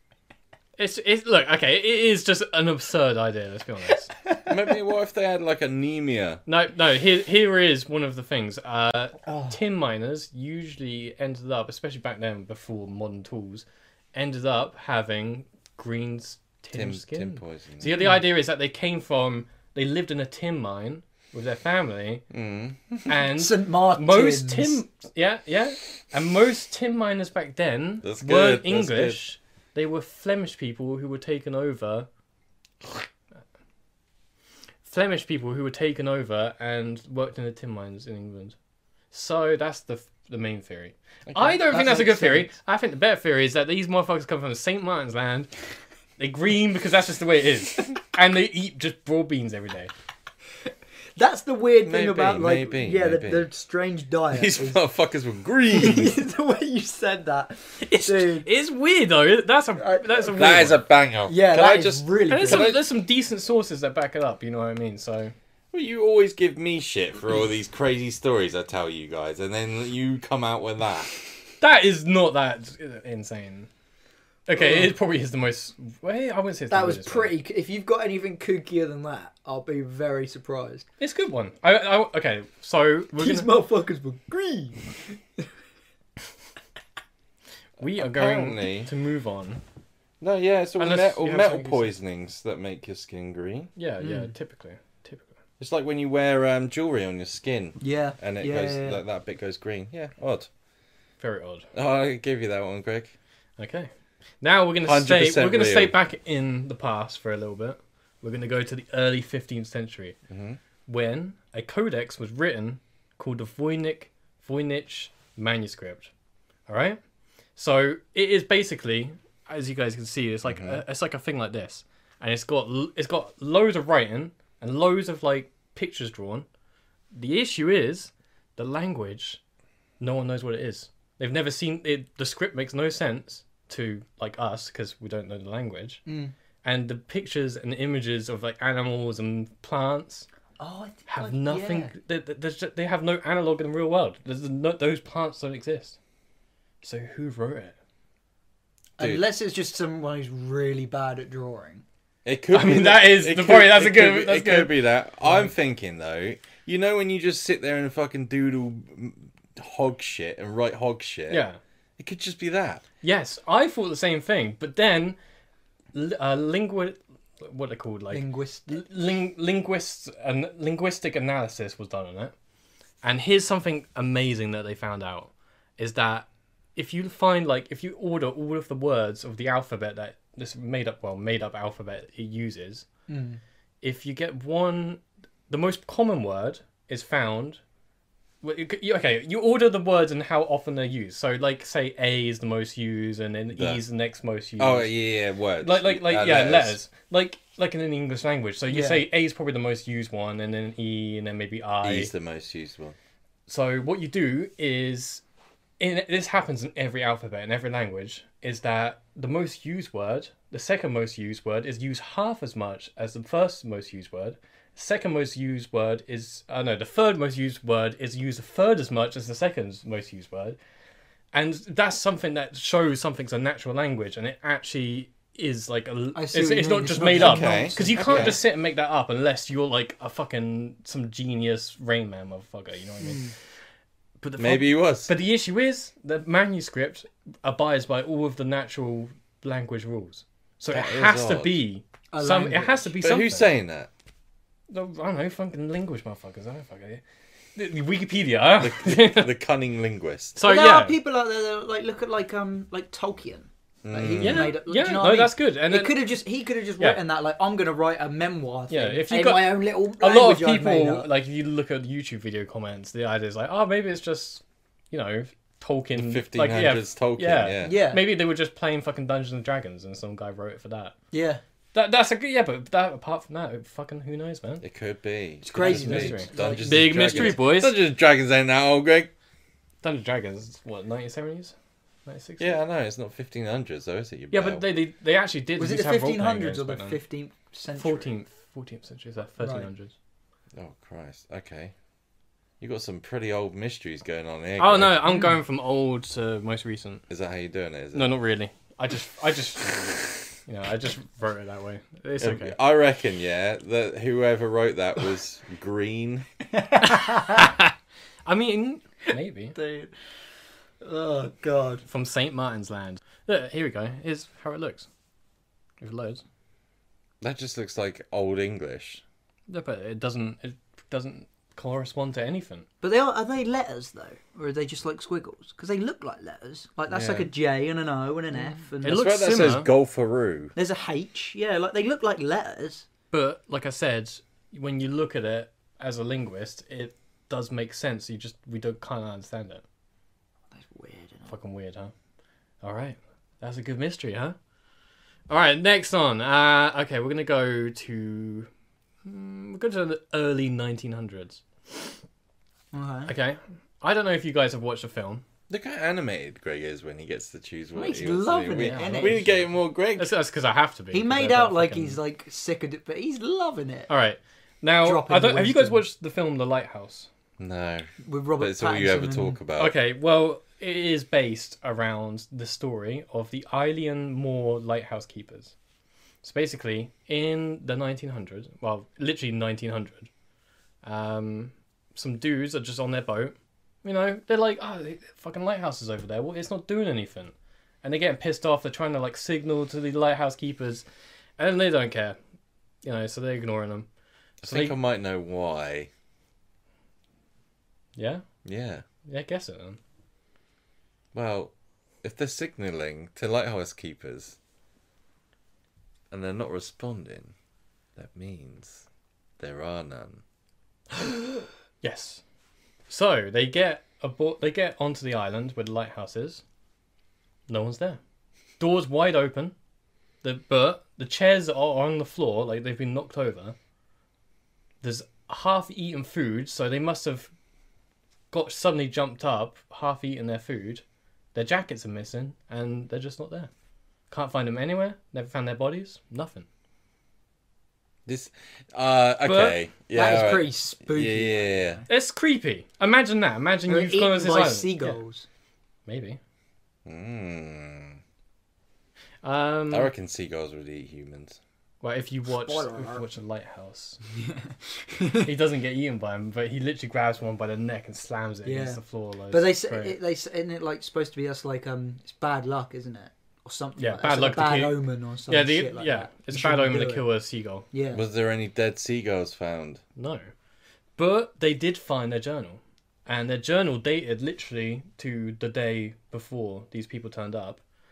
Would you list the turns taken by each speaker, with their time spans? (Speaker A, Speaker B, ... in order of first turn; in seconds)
Speaker A: 0.8-4.1, 6.5-22.2, 23.1-32.1, 34.8-38.5, 39.1-45.5, 46.2-49.9, 57.8-60.8, 62.3-65.3, 71.6-73.7, 74.5-77.3, 81.0-83.5, 87.8-89.6, 90.8-91.9, 93.8-95.3, 101.2-101.7, 103.6-103.9, 104.4-110.2, 110.8-116.1, 116.7-117.0, 117.5-126.5, 127.1-129.4, 130.0-136.0, 136.6-140.3, 141.1-146.0, 146.8-147.7, 152.5-154.7, 161.3-161.6, 163.0-165.2, 165.9-172.3, 173.0-182.8, 183.8-187.6, 188.4-194.9, 195.6-202.1, 203.5-205.2, 205.8-220.6, 221.3-233.3, 234.2-243.5, 244.7-247.0, 247.5-249.3, 250.3-250.9, 254.2-256.0, 258.7-270.9, 271.7-274.6, 275.6-277.8, 279.8-281.5, 282.1-282.6, 284.3-287.0, 287.8-289.9, 294.6-297.0, 297.9-302.6, 306.8-307.7, 308.2-309.6, 311.9-314.9, 315.8-316.2, 319.5-322.6, 328.8-329.7, 333.1-339.6, 341.3-341.9, 342.6-344.4, 345.3-348.5, 349.0-351.9, 353.1-355.2, 358.6-362.0, 363.9-367.1, 369.6-375.5, 376.2-380.1, 380.8-390.9, 391.4-392.2, 392.8-393.9, 394.4-394.8, 398.0-398.2, 399.1-399.8, 411.8-412.2, 412.9-416.4, 417.5-418.0, 418.6-419.5, 420.2-423.6, 424.8-427.3, 428.3-430.8, 431.3-433.5, 434.1-436.4, 439.2-439.6, 441.9-445.0, 445.9-446.2, 449.2-449.9, 451.8-454.0, 455.1-460.0, 463.8-467.6, 470.0-470.3, 471.0-477.6
Speaker B: 4.5-6.4, 16.7-17.9, 22.3-23.1, 28.0-29.2, 41.3-41.6, 51.8-53.5, 54.3-56.2, 60.4-62.8, 65.7-71.1, 87.8-88.9, 90.2-93.7, 95.6-100.5, 101.7-103.1, 104.8-105.9, 110.3-110.6, 120.5-120.8, 149.0-149.2, 152.2-161.4, 162.0-162.8, 193.5-193.8, 194.6-196.8, 201.8-203.0, 227.1-228.4, 234.4-235.1, 240.7-241.6, 243.0-243.9, 248.6-250.4, 253.8-254.6, 265.9-267.8, 274.6-279.1, 282.4-284.6, 290.5-291.7, 292.6-295.2, 297.1-298.1, 302.2-306.3, 317.2-319.0, 326.9-327.3, 328.8-330.5, 355.5-360.1, 367.4-367.9, 368.4-369.7, 394.4-395.9, 398.4-398.8, 401.1-404.4, 406.1-407.3, 407.9-408.8, 409.4-410.2, 438.1-441.8, 446.8-448.0, 449.7-451.4, 467.9-469.8
Speaker C: 9.3-9.5, 23.3-24.8, 41.7-42.5, 51.1-54.8, 55.7-58.5, 59.8-60.6, 61.2-62.8, 74.6-74.9, 76.7-80.9, 83.2-85.5, 94.0-94.3, 97.8-99.0, 136.1-136.3, 140.6-141.9, 149.0-151.8, 168.1-168.8, 183.1-183.4, 198.7-199.0, 226.1-228.4, 233.0-233.3, 242.1-242.9, 250.4-261.1, 267.6-268.0, 271.1-271.4, 275.4-277.4, 285.6-288.1, 289.4-289.7, 306.6-307.4, 309.6-309.9, 310.8-311.8, 322.8-329.1, 330.6-332.9, 340.5-341.3, 352.7-353.1, 357.7-359.3, 360.9-363.9, 364.8-365.8, 368.0-369.4, 439.9-441.9, 443.7-445.2, 452.3-453.0, 454.1-455.3, 458.4-458.8, 459.3-467.0, 467.7-468.0